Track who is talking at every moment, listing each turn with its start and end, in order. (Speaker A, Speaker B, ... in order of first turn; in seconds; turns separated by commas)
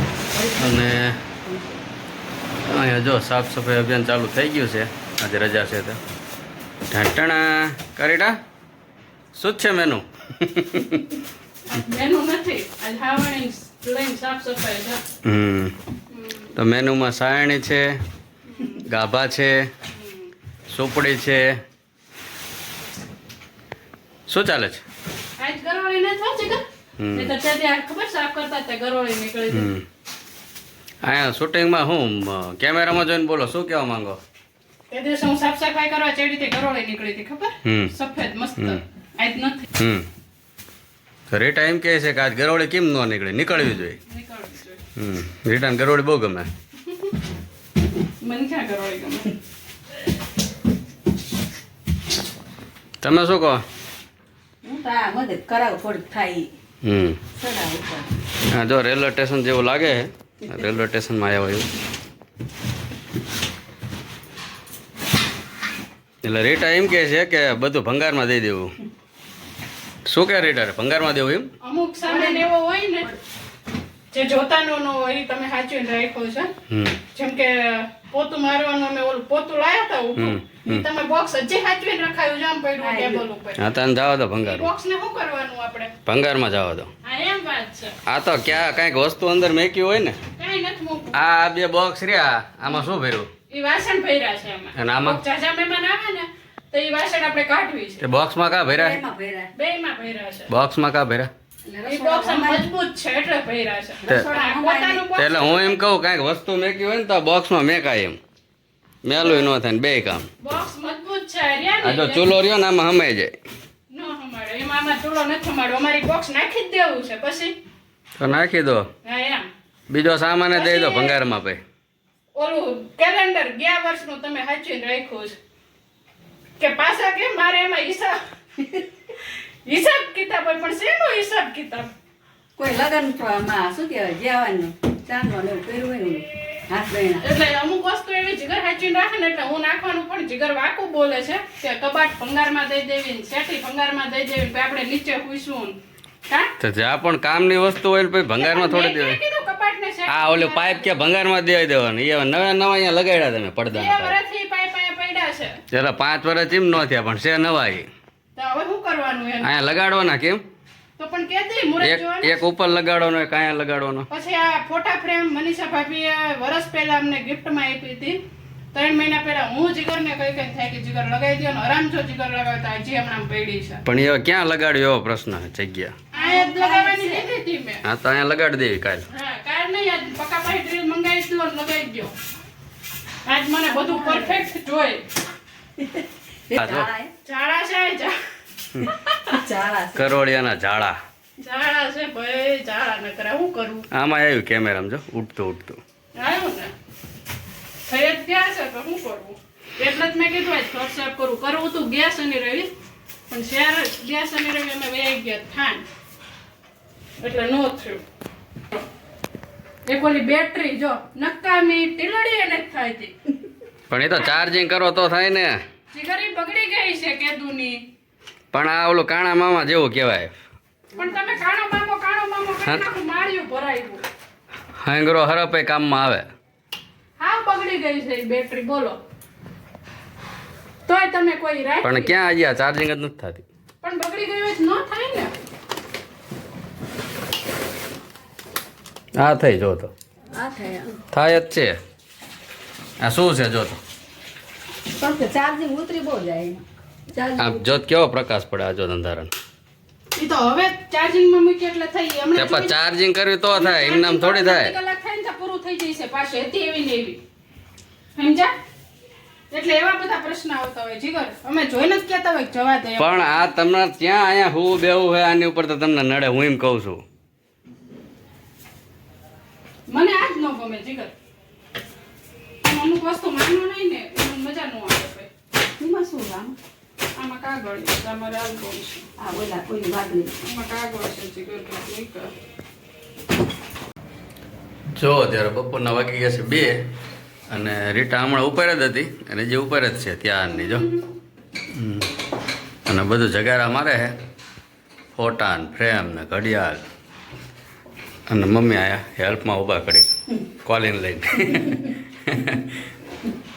Speaker A: 0.3-1.8, Speaker B: 0.6-1.2, Speaker B: 2.7-6.0, Speaker B: 6.9-8.3, Speaker B: 9.3-11.2, Speaker C: 11.7-15.0, Speaker B: 15.2-15.8, Speaker C: 16.1-16.5, Speaker B: 16.6-18.0, Speaker C: 18.5-18.8, Speaker B: 18.8-19.7, Speaker C: 19.9-20.3, Speaker B: 20.7-21.5, Speaker B: 24.3-24.8, Speaker C: 25.4-26.6, Speaker B: 27.0-27.3, Speaker C: 27.1-29.7, Speaker B: 29.5-29.8, Speaker B: 31.0-34.2, Speaker C: 34.9-39.7, Speaker B: 37.6-37.9, Speaker B: 39.8-40.1, Speaker B: 41.3-44.0, Speaker C: 44.1-44.8, Speaker B: 45.0-46.5, Speaker C: 46.9-47.1, Speaker C: 48.2-49.3, Speaker B: 53.0-53.6, Speaker A: 54.6-56.5, Speaker B: 56.8-57.2, Speaker A: 57.4-58.1, Speaker B: 58.5-61.7, Speaker A: 60.4-60.8, Speaker B: 66.2-68.7, Speaker B: 70.1-71.5, Speaker C: 71.6-73.1, Speaker A: 72.0-72.5, Speaker C: 74.1-76.5, Speaker B: 76.7-77.0, Speaker C: 77.1-83.6, Speaker B: 80.2-80.9, Speaker A: 82.8-83.2, Speaker B: 83.6-84.7, Speaker C: 84.4-85.9, Speaker B: 86.1-86.9, Speaker C: 87.0-88.0, Speaker B: 88.1-90.2, Speaker C: 90.4-91.2, Speaker B: 91.1-93.3, Speaker C: 93.5-98.0, Speaker B: 94.8-95.2, Speaker B: 98.0-99.0, Speaker A: 98.7-99.5, Speaker C: 99.5-100.5, Speaker B: 100.5-101.3, Speaker A: 101.7-102.7, Speaker C: 101.9-105.7, Speaker A: 104.0-105.1, Speaker B: 105.2-108.2, Speaker B: 109.0-110.3, Speaker C: 109.2-109.5, Speaker C: 110.4-112.4, Speaker B: 111.8-113.3, Speaker C: 113.9-117.5, Speaker B: 118.2-118.9, Speaker C: 119.0-119.5, Speaker B: 119.9-121.6, Speaker C: 120.5-121.2, Speaker C: 122.3-125.4, Speaker C: 126.6-128.2, Speaker C: 129.7-131.9, Speaker A: 132.6-137.3, Speaker C: 137.2-145.8, Speaker C: 146.3-146.5, Speaker B: 146.6-149.2, Speaker C: 148.4-151.0, Speaker B: 150.1-154.2, Speaker C: 153.7-155.6, Speaker B: 155.7-157.9, Speaker C: 158.4-159.5, Speaker B: 159.4-160.4, Speaker C: 161.0-162.4, Speaker B: 161.8-164.1, Speaker C: 164.1-168.2, Speaker C: 168.7-173.8, Speaker B: 173.8-175.9, Speaker C: 176.1-177.8, Speaker A: 176.2-177.3, Speaker B: 177.8-179.1, Speaker C: 179.1-182.1, Speaker C: 183.3-185.0, Speaker A: 183.7-184.4, Speaker A: 185.8-187.1, Speaker B: 186.6-186.9, Speaker C: 187.3-188.1, Speaker A: 188.8-190.2, Speaker C: 188.9-189.2, Speaker B: 189.9-191.0, Speaker C: 191.4-193.9, Speaker B: 193.9-195.8, Speaker C: 196.2-196.7, Speaker C: 197.9-202.7, Speaker C: 203.3-205.8, Speaker C: 207.2-208.0, Speaker C: 209.9-213.1, Speaker B: 213.9-215.6, Speaker C: 215.9-217.8, Speaker B: 218.5-220.3, Speaker C: 221.0-224.0, Speaker B: 224.8-226.3, Speaker C: 227.2-229.0, Speaker C: 230.9-232.1, Speaker B: 231.8-233.4, Speaker C: 233.8-235.3, Speaker B: 239.2-239.9, Speaker A: 240.3-241.0, Speaker B: 241.1-241.7, Speaker B: 243.0-243.8, Speaker A: 245.0-247.7, Speaker B: 247.4-249.3, Speaker C: 250.2-252.7, Speaker B: 252.4-254.7, Speaker C: 253.5-257.2, Speaker C: 258.2-258.5, Speaker C: 259.5-263.3, Speaker B: 263.0-267.0, Speaker C: 269.9-271.1, Speaker C: 272.6-275.3, Speaker A: 275.8-276.6, Speaker C: 277.2-279.1, Speaker A: 279.2-280.4, Speaker C: 280.4-282.3, Speaker B: 285.0-286.7, Speaker B: 287.5-290.9, Speaker B: 291.7-292.1, Speaker B: 292.9-294.1, Speaker B: 295.2-296.8, Speaker B: 298.3-300.1, Speaker B: 300.6-302.6, Speaker A: 301.5-301.8